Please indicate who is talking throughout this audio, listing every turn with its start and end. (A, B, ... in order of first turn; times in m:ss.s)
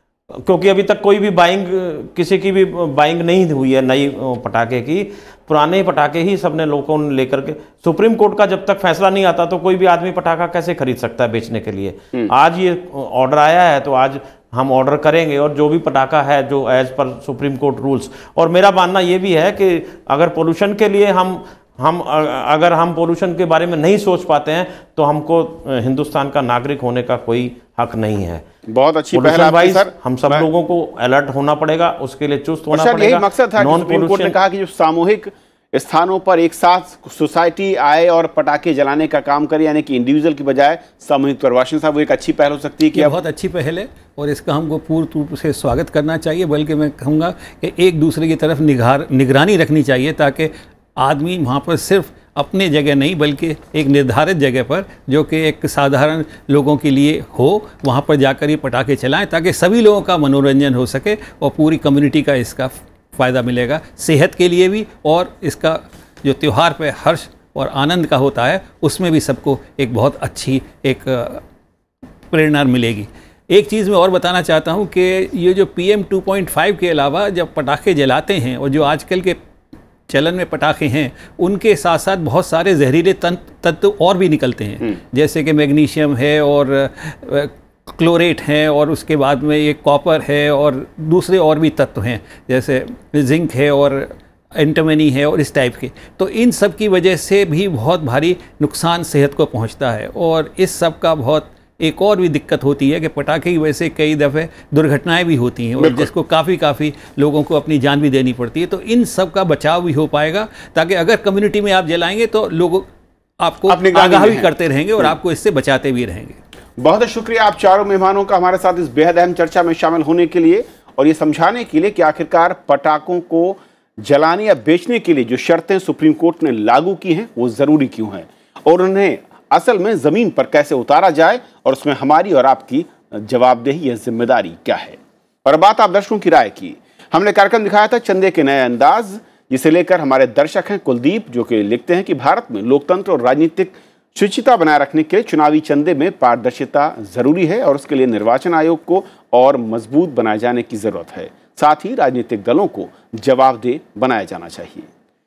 0:00.3-0:28.4 A
0:28.7-0:30.5 B
0:29.1-0:34.4 A
0:32.7-0:43.2 B
0:42.9-1:11.4 C
1:12.3-1:19.4 C
1:20.1-1:52.9 C
1:45.8-1:46.1 B
1:53.4-1:56.4 C
1:53.7-1:55.1 B
1:56.8-2:34.9 B